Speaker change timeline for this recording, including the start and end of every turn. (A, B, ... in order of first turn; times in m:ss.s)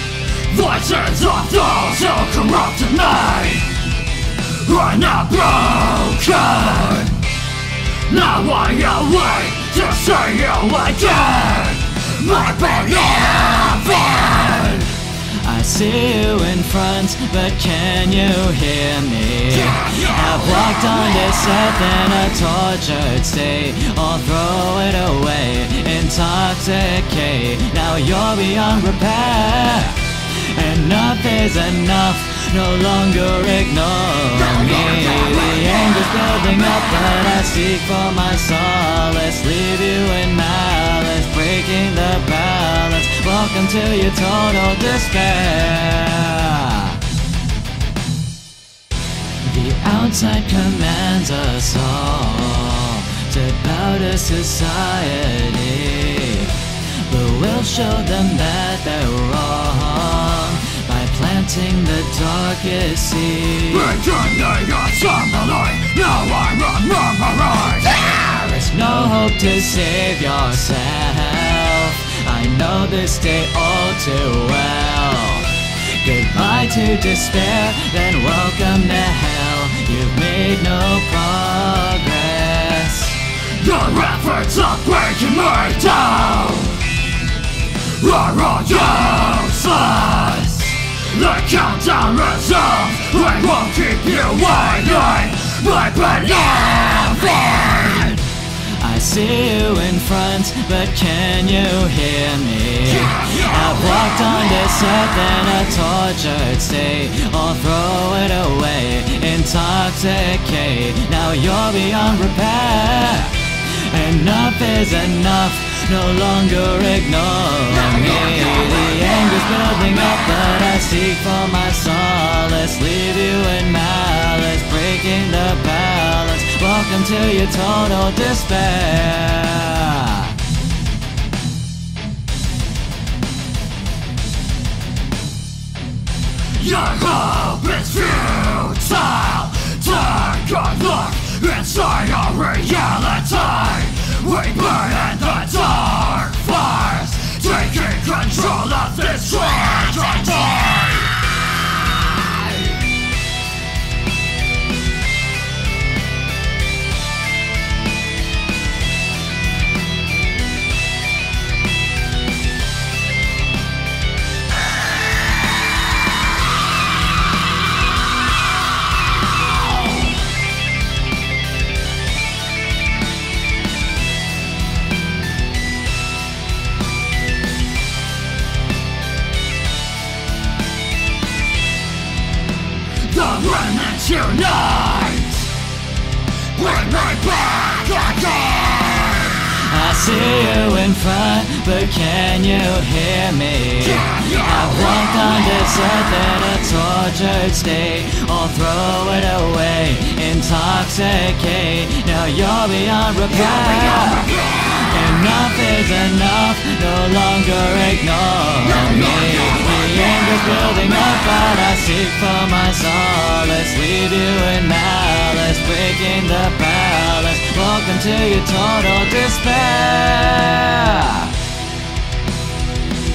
0:00.5-0:03.8 A
0:04.5-0:07.3 A
0:08.1-0:14.8 A
0:14.6-0:47.1 B
0:49.4-1:04.0 B
1:03.9-1:07.9 A
1:07.8-1:23.4 B
1:23.6-1:26.8 A
1:27.9-1:30.3 A
1:29.8-1:31.0 B
1:31.0-1:38.0 A
1:37.9-2:10.4 B
2:16.5-2:30.8 A
3:03.0-3:05.4 A
3:06.6-3:09.0 A
3:09.3-3:41.4 B